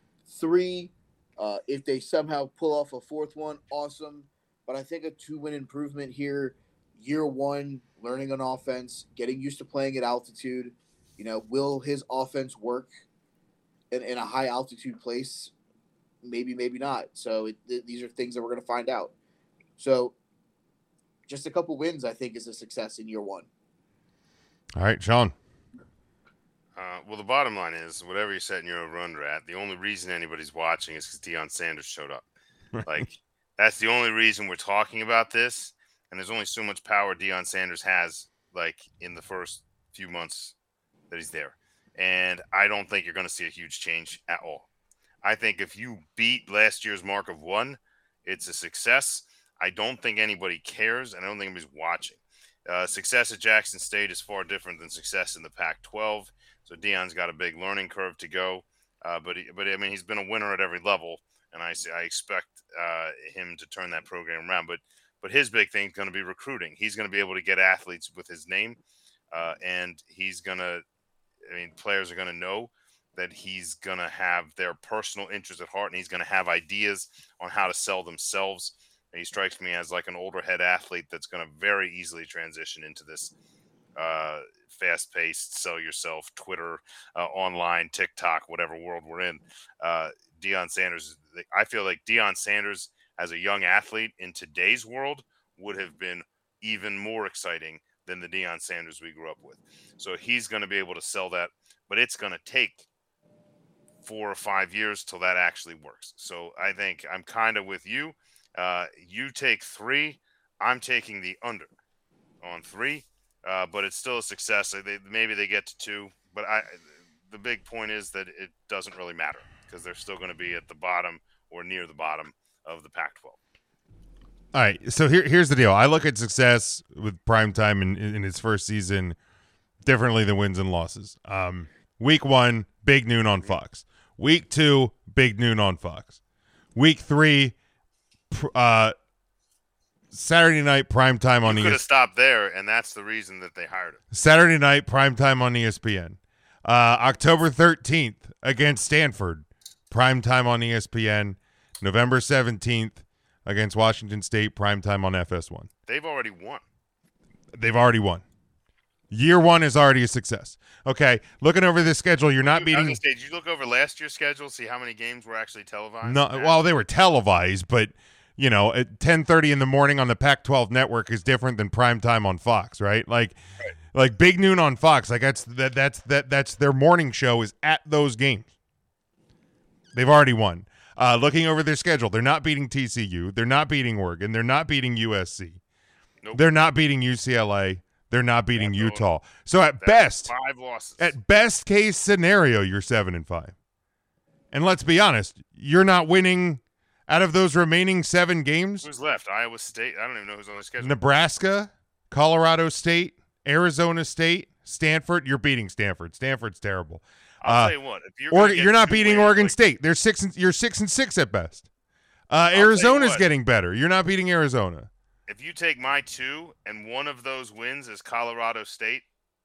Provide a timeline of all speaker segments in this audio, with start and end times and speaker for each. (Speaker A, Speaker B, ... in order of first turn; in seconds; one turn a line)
Speaker A: 0.3-12.9
Speaker A: 13.9-15.5
Speaker A: 16.2-19.1
Speaker A: 19.8-20.1
Speaker A: 21.3-23.5
Speaker B: 24.7-25.3
Speaker C: 26.8-32.2
Speaker C: 32.8-40.5
Speaker C: 41.1-44.7
Speaker C: 45.2-68.8
Speaker C: 69.3-70.8
Speaker C: 71.5-83.3
Speaker C: 84.0-102.8
Speaker C: 104.0-111.7
Speaker C: 112.4-123.4
Speaker B: 124.5-129.2
Speaker B: 129.8-136.1
Speaker B: 136.7-137.5
Speaker B: 138.3-138.9
Speaker B: 140.1-141.8
Speaker C: 141.4-144.0
Speaker B: 144.1-155.7
Speaker C: 155.9-156.6
Speaker B: 157.5-158.2
Speaker B: 159.1-163.0
Speaker C: 162.5-166.6
Speaker B: 166.0-173.4
Speaker B: 173.9-178.5
Speaker B: 179.9-185.6
Speaker B: 186.3-190.3
Speaker C: 188.6-189.0
Speaker C: 189.8-191.1
Speaker B: 191.0-193.5
Speaker B: 194.5-198.9
Speaker C: 198.8-200.9
Speaker B: 200.8-207.7
Speaker C: 207.4-209.6
Speaker B: 208.3-211.7
Speaker B: 212.3-214.9
Speaker C: 212.5-213.2
Speaker C: 215.3-219.0